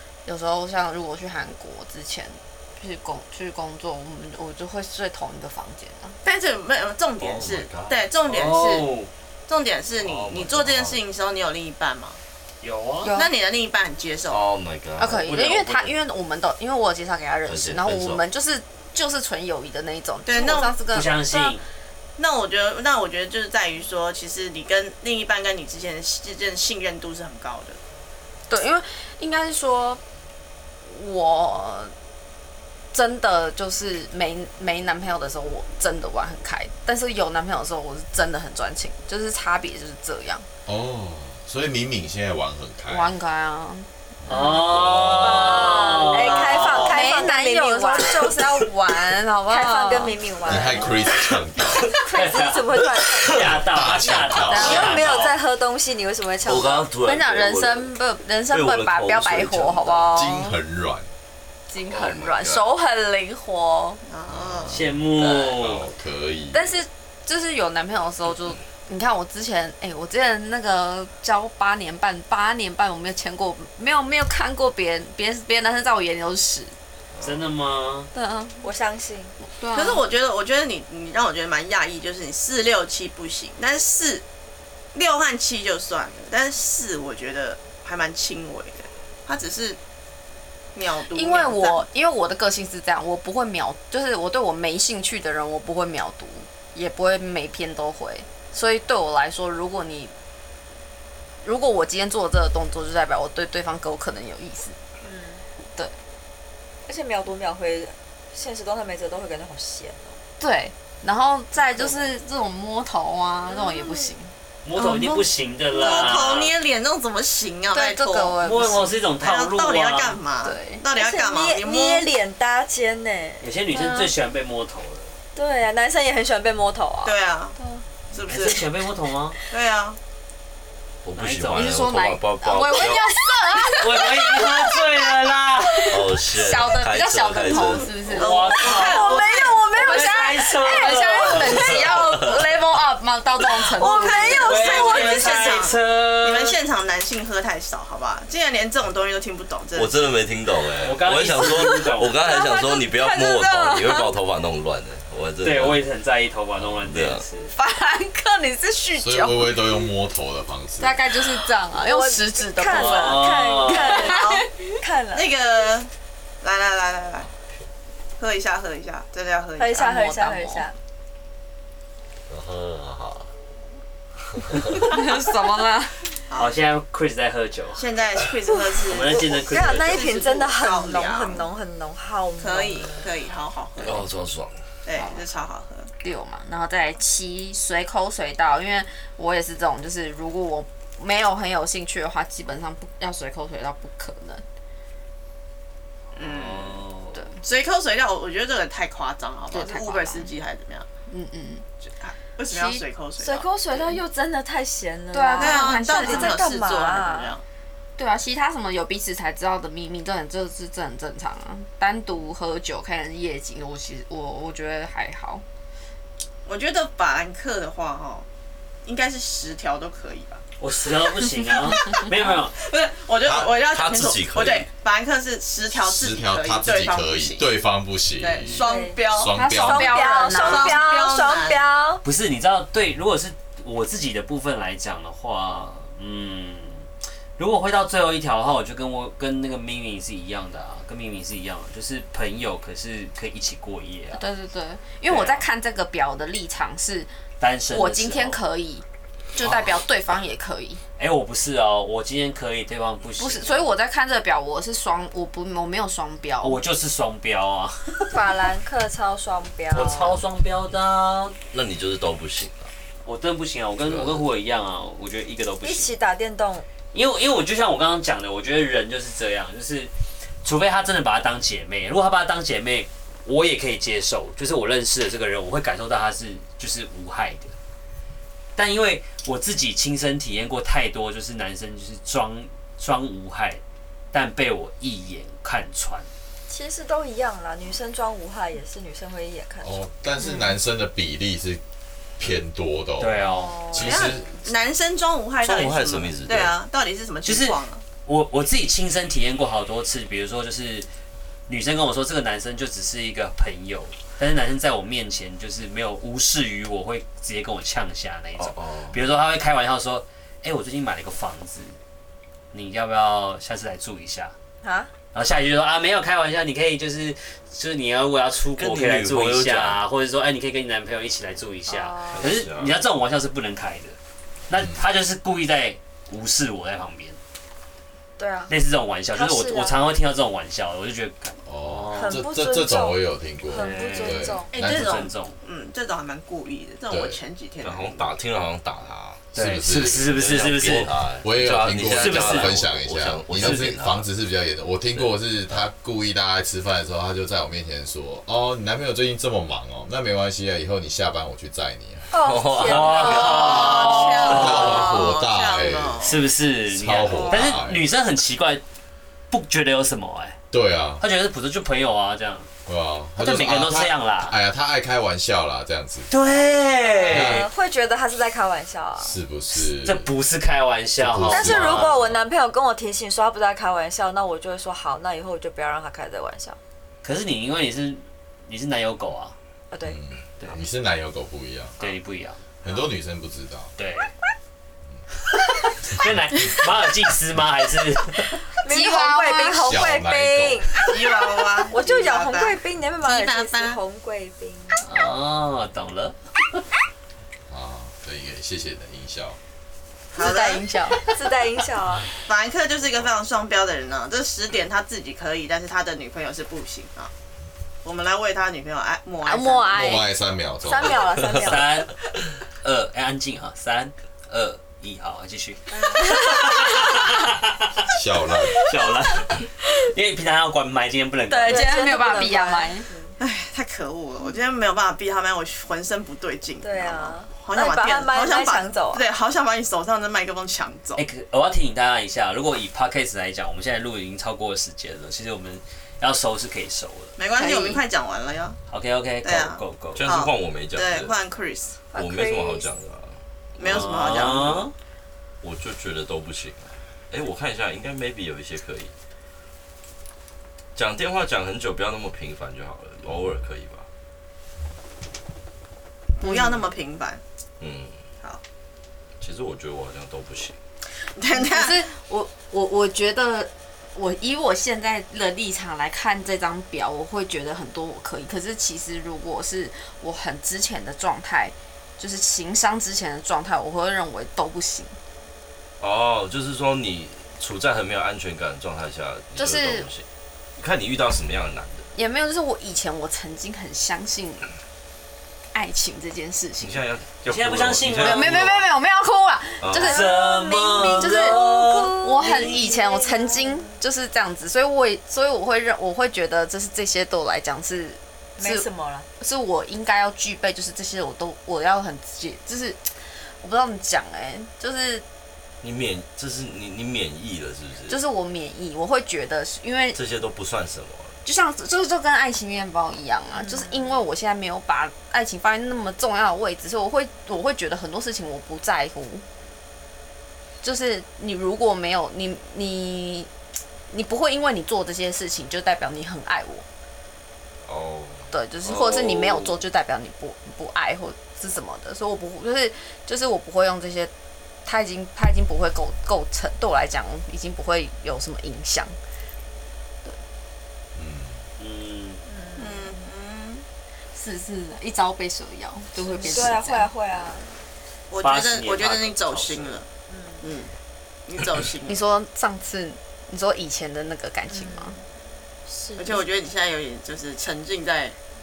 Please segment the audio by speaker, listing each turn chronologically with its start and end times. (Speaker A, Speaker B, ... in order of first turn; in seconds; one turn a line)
Speaker A: 0.2-6.2
Speaker B: 6.2-8.9
Speaker C: 7.2-8.1
Speaker D: 8.2-9.1
Speaker B: 9.5-12.2
Speaker C: 10.0-11.0
Speaker D: 12.6-13.1
Speaker A: 13.0-13.3
Speaker B: 13.1-14.4
Speaker C: 14.3-15.3
Speaker A: 15.0-21.5
Speaker D: 15.2-15.9
Speaker C: 17.5-18.2
Speaker B: 20.2-20.7
Speaker D: 20.9-21.6
Speaker B: 22.2-27.8
Speaker A: 28.5-30.0
Speaker A: 30.8-31.9
Speaker A: 32.9-40.5
Speaker E: 40.6-43.1
Speaker A: 42.9-43.9
Speaker E: 44.2-45.8
Speaker D: 44.3-47.2
Speaker F: 45.2-48.7
Speaker A: 46.2-50.3
Speaker F: 49.5-51.0
Speaker E: 50.4-51.9
Speaker F: 51.8-53.5
Speaker D: 52.0-55.3
Speaker E: 53.3-55.1
Speaker A: 54.5-55.0
Speaker F: 54.5-56.9
Speaker C: 56.4-57.9
Speaker A: 57.0-60.6
Speaker C: 58.5-60.2
Speaker E: 60.1-61.1
Speaker A: 61.7-64.0
Speaker E: 62.2-62.6
Speaker B: 64.1-64.8
Speaker E: 64.3-66.7
Speaker D: 64.7-65.9
Speaker A: 66.5-76.7
Speaker D: 77.2-78.1
Speaker A: 78.1-78.6
Speaker F: 78.6-79.3
Speaker A: 79.4-80.0
Speaker B: 79.7-84.2
Speaker B: 84.9-89.8
Speaker B: 90.7-91.8
Speaker A: 91.1-100.1
Speaker A: 101.4-104.8
Speaker F: 105.0-105.4
Speaker F: 106.8-110.2
Speaker A: 110.4-114.3
Speaker F: 113.5-114.1
Speaker D: 114.6-116.5
Speaker B: 114.8-118.3
Speaker A: 115.9-116.2
Speaker A: 117.7-118.9
Speaker D: 118.4-120.2
Speaker B: 119.2-122.1
Speaker A: 120.4-120.8
Speaker F: 120.9-123.4
Speaker D: 123.4-125.1
Speaker A: 123.7-124.1
Speaker F: 125.3-127.1
Speaker B: 127.0-127.6
Speaker B: 128.1-128.7
Speaker D: 128.2-129.4
Speaker B: 129.5-130.0
Speaker C: 131.0-133.1
Speaker D: 131.2-131.7
Speaker A: 131.5-134.8
Speaker D: 133.8-135.9
Speaker A: 135.7-144.7
Speaker C: 135.9-137.9
Speaker B: 138.1-139.7
Speaker D: 138.1-139.2
Speaker F: 138.4-141.0
Speaker D: 139.7-141.8
Speaker C: 141.3-142.4
Speaker F: 143.7-145.6
Speaker B: 143.8-150.1
Speaker D: 144.3-146.6
Speaker C: 149.7-155.8
Speaker D: 150.8-152.2
Speaker A: 151.8-154.1
Speaker D: 155.4-157.5
Speaker C: 156.6-157.2
Speaker A: 157.5-159.8
Speaker E: 159.0-161.0
Speaker A: 160.8-164.7
Speaker F: 161.8-165.3
Speaker D: 162.7-164.1
Speaker B: 164.1-164.4
Speaker B: 165.1-165.9
Speaker B: 166.4-167.3
Speaker B: 168.2-169.8
Speaker F: 169.6-170.7
Speaker A: 169.8-170.6
Speaker C: 172.3-173.3
Speaker C: 174.5-174.8
Speaker A: 174.8-176.2
Speaker B: 176.3-176.5
Speaker D: 176.3-177.9
Speaker B: 177.7-181.5
Speaker D: 178.9-180.1
Speaker F: 179.1-183.1
Speaker B: 182.4-184.1
Speaker C: 183.8-184.6
Speaker B: 184.8-185.9
Speaker A: 184.9-185.2
Speaker A: 186.0-194.4
Speaker B: 196.1-196.8
Speaker D: 196.1-197.3
Speaker B: 197.4-200.9
Speaker A: 199.5-200.3
Speaker A: 201.1-201.6
Speaker B: 201.9-203.5
Speaker A: 202.5-202.8
Speaker F: 203.2-207.3
Speaker A: 205.1-206.4
Speaker B: 205.4-207.4
Speaker A: 208.0-215.4
Speaker B: 216.4-218.2
Speaker B: 218.8-220.4
Speaker D: 220.6-222.6
Speaker B: 221.7-227.5
Speaker E: 223.2-223.5
Speaker C: 223.7-224.7
Speaker E: 225.7-230.2
Speaker B: 228.2-229.4
Speaker F: 228.5-232.0
Speaker A: 229.3-230.8
Speaker B: 230.0-231.7
Speaker D: 232.0-244.2
Speaker A: 244.1-247.1
Speaker D: 245.1-245.5
Speaker D: 247.4-248.4
Speaker A: 247.7-250.8
Speaker D: 249.4-249.8
Speaker D: 251.0-253.7
Speaker A: 253.2-256.6
Speaker D: 256.4-258.2
Speaker F: 258.1-260.2
Speaker D: 259.7-261.3
Speaker C: 261.5-262.7
Speaker D: 263.0-265.9
Speaker C: 263.8-264.2
Speaker F: 265.6-266.6
Speaker D: 266.9-277.5
Speaker D: 278.6-286.1
Speaker F: 286.5-289.9
Speaker E: 289.6-291.6
Speaker A: 290.2-290.5
Speaker E: 292.2-294.3
Speaker D: 293.0-293.8
Speaker F: 293.3-294.4
Speaker B: 293.8-297.8
Speaker C: 295.4-296.6
Speaker D: 297.2-300.9
Speaker D: 301.5-311.8
Speaker C: 308.4-309.0
Speaker D: 312.5-314.3
Speaker F: 314.6-314.9
Speaker D: 315.1-324.0
Speaker C: 318.6-319.8
Speaker F: 321.7-322.4
Speaker C: 322.1-322.8
Speaker D: 324.5-327.2
Speaker E: 324.5-324.8
Speaker F: 328.2-328.5
Speaker D: 328.5-332.2
Speaker F: 329.1-329.8
Speaker E: 331.4-335.1
Speaker F: 331.9-334.5
Speaker D: 333.5-335.4
Speaker B: 334.5-338.1
Speaker E: 336.9-337.2
Speaker C: 337.6-339.2
Speaker D: 339.3-341.0
Speaker E: 339.3-352.1
Speaker C: 339.8-344.1
Speaker D: 341.8-342.5
Speaker C: 344.9-345.6
Speaker F: 352.1-354.6
Speaker C: 352.2-353.8
Speaker D: 352.6-354.8
Speaker B: 353.0-356.2
Speaker E: 354.2-356.0
Speaker D: 356.0-358.6
Speaker E: 356.7-357.9
Speaker D: 359.3-360.4
Speaker E: 360.5-361.0
Speaker D: 361.0-362.5
Speaker E: 362.6-366.1
Speaker D: 363.2-364.4
Speaker D: 366.1-367.5
Speaker F: 366.8-369.2
Speaker E: 367.1-367.5
Speaker E: 369.0-370.1
Speaker D: 369.8-372.0
Speaker E: 371.0-372.2
Speaker F: 371.3-376.6
Speaker D: 377.0-379.4
Speaker F: 379.7-380.0
Speaker E: 379.8-381.8
Speaker D: 381.8-382.4
Speaker E: 382.6-383.7
Speaker D: 383.8-384.1
Speaker D: 385.9-388.3
Speaker F: 388.5-394.8
Speaker A: 388.6-389.7
Speaker E: 389.6-390.7
Speaker B: 390.8-393.8
Speaker D: 394.8-396.2
Speaker E: 397.5-399.4
Speaker B: 400.1-400.6
Speaker A: 400.2-401.1
Speaker F: 400.2-402.1
Speaker B: 402.2-407.1
Speaker B: 407.8-409.8
Speaker A: 409.2-410.1
Speaker E: 409.7-411.1
Speaker F: 410.6-411.9
Speaker D: 411.4-411.9
Speaker D: 412.6-417.8
Speaker F: 415.8-416.4
Speaker E: 417.9-418.6
Speaker D: 418.6-421.7
Speaker F: 421.3-423.1
Speaker A: 421.4-422.9
Speaker B: 423.2-431.0
Speaker F: 426.6-429.1
Speaker D: 430.9-437.1
Speaker B: 437.2-438.6
Speaker D: 438.7-440.0
Speaker B: 439.2-441.8
Speaker C: 439.9-441.1
Speaker F: 441.9-442.7
Speaker C: 441.9-444.3
Speaker B: 443.6-444.7
Speaker D: 443.6-444.7
Speaker C: 445.4-448.9
Speaker C: 450.7-453.9
Speaker B: 456.2-457.2
Speaker A: 456.2-456.7
Speaker C: 457.6-457.9
Speaker C: 459.2-460.6
Speaker B: 461.1-461.9
Speaker A: 461.3-475.0
Speaker C: 475.8-480.0
Speaker A: 479.4-479.9
Speaker C: 480.6-481.9
Speaker A: 481.9-484.5
Speaker A: 485.5-486.8
Speaker C: 486.6-488.7
Speaker D: 487.2-488.6
Speaker A: 487.9-490.1
Speaker C: 489.6-490.0
Speaker D: 489.8-492.5
Speaker F: 489.8-493.7
Speaker A: 491.0-491.4
Speaker A: 491.9-498.6
Speaker F: 498.4-499.1
Speaker A: 499.2-505.0
Speaker C: 505.6-508.0
Speaker A: 507.9-510.0
Speaker C: 509.9-511.2
Speaker A: 511.2-519.2
Speaker F: 513.3-514.0
Speaker A: 520.6-523.3
Speaker A: 523.9-526.6
Speaker C: 527.6-529.6
Speaker A: 528.3-534.1
Speaker A: 534.6-539.0
Speaker E: 540.9-541.4
Speaker D: 541.6-542.2
Speaker F: 542.3-543.0
Speaker B: 542.6-543.6
Speaker A: 544.1-546.9
Speaker F: 546.0-547.5
Speaker B: 548.1-549.9
Speaker D: 548.2-549.8
Speaker F: 550.1-550.4
Speaker B: 550.4-550.7
Speaker B: 551.3-552.0
Speaker A: 551.9-555.0
Speaker F: 554.5-555.0
Speaker F: 555.7-556.2
Speaker B: 556.0-558.1